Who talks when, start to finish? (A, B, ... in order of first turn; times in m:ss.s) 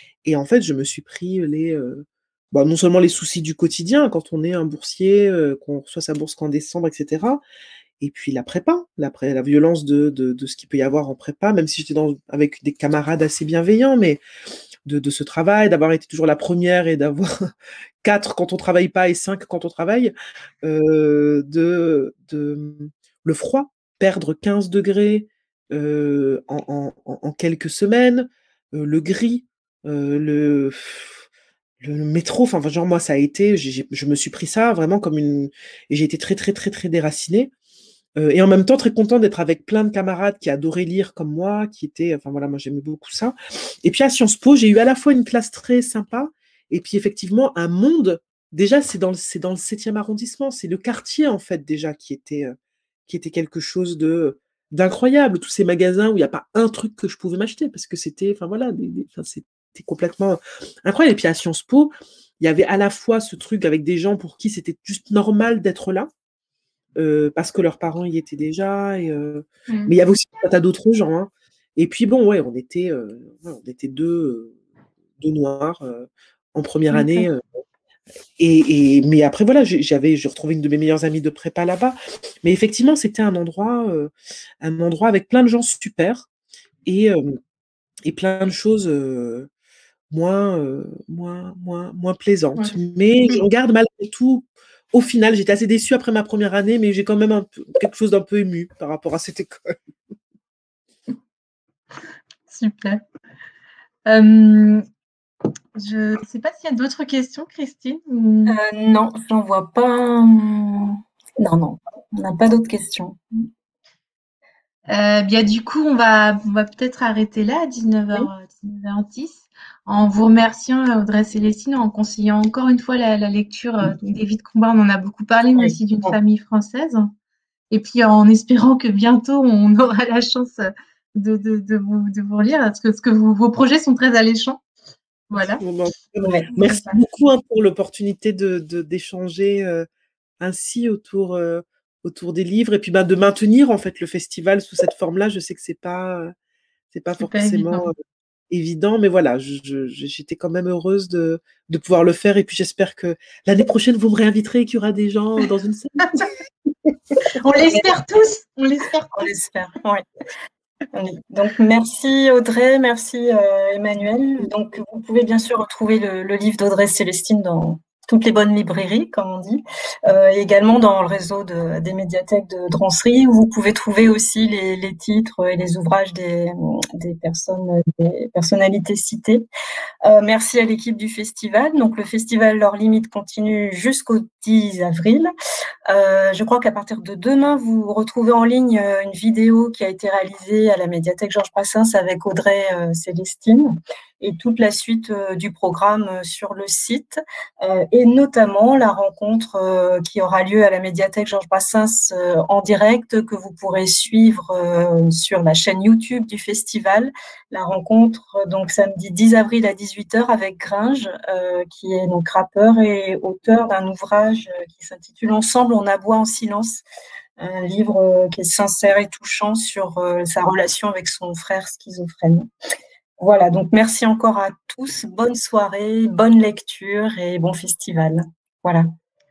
0:00.2-0:07.4 A
0:08.0-0:14.2 A
0:14.9-0:17.5 A
0:18.0-0:31.2 A
0:31.8-0:37.5 A
0:38.2-0:52.5 A
0:53.1-1:06.1 A
1:07.0-1:14.6 A
1:15.2-1:17.4 A
1:16.9-1:17.3 B
1:18.4-1:26.3 A
1:26.9-1:27.4 A
1:28.0-1:29.5 A
1:30.1-1:39.8 A
1:42.5-1:43.0 B
1:44.1-1:44.8 B
1:45.8-1:48.6 B
1:48.5-1:53.4 C
1:54.9-2:07.1 B
2:05.6-2:06.1 A
2:07.7-2:14.6 B
2:15.3-2:15.6 B
2:15.3-2:19.9 A
2:16.2-2:16.5 C
2:16.6-2:17.0 B
2:20.4-2:26.3 A
2:26.9-2:28.0 A
2:27.2-2:27.9 B
2:28.5-2:37.0 A
2:37.4-2:39.3 B
2:39.1-2:40.0 C
2:40.9-2:59.5 C
3:00.0-3:05.3 C
3:05.9-3:36.8 C
3:37.4-3:42.5 C
3:43.2-3:48.9 C